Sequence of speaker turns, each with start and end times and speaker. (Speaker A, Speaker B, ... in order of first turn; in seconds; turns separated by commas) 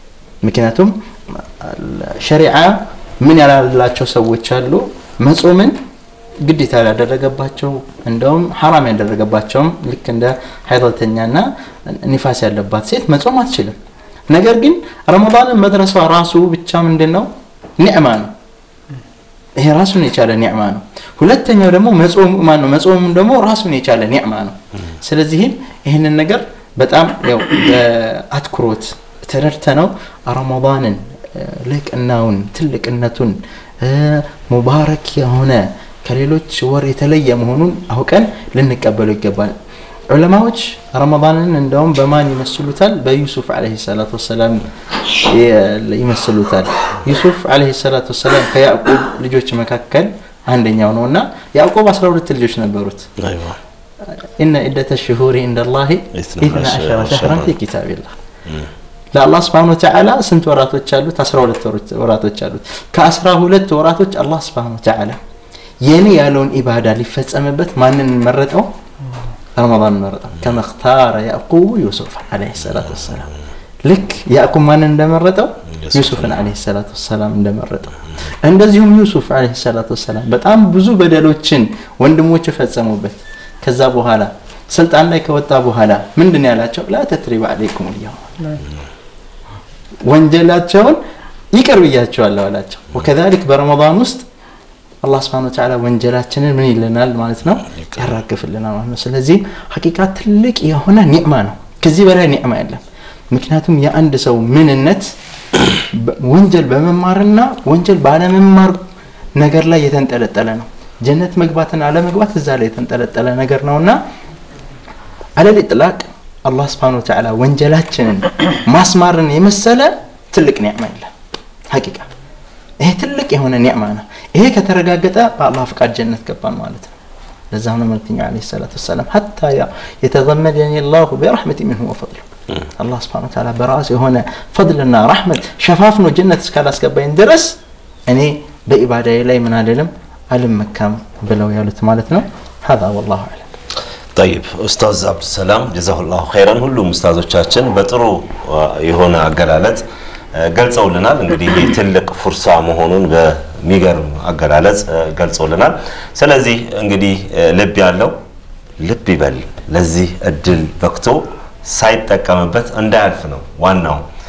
Speaker A: 0.4-5.7, Speaker A: 6.4-13.8, Speaker A: 14.3-17.3, Speaker A: 17.8-18.3, Speaker A: 19.6-39.5, Speaker A: 40.1-44.7, Speaker A: 45.2-53.1, Speaker B: 53.2-53.6, Speaker A: 54.4-58.1, Speaker B: 56.1-57.5, Speaker A: 59.1-65.2, Speaker A: 65.8-68.7, Speaker A: 69.5-73.3, Speaker A: 73.8-88.6, Speaker B: 75.8-76.4, Speaker A: 90.1-91.0, Speaker A: 91.5-94.2, Speaker A: 95.0-105.1, Speaker A: 105.9-108.8, Speaker A: 109.3-114.0, Speaker A: 115.4-121.1, Speaker A: 121.7-122.1, Speaker A: 122.8-126.9, Speaker A: 127.5-132.2, Speaker A: 132.8-137.6, Speaker A: 138.1-143.4, Speaker B: 144.1-149.8, Speaker B: 150.3-158.1, Speaker B: 158.8-164.0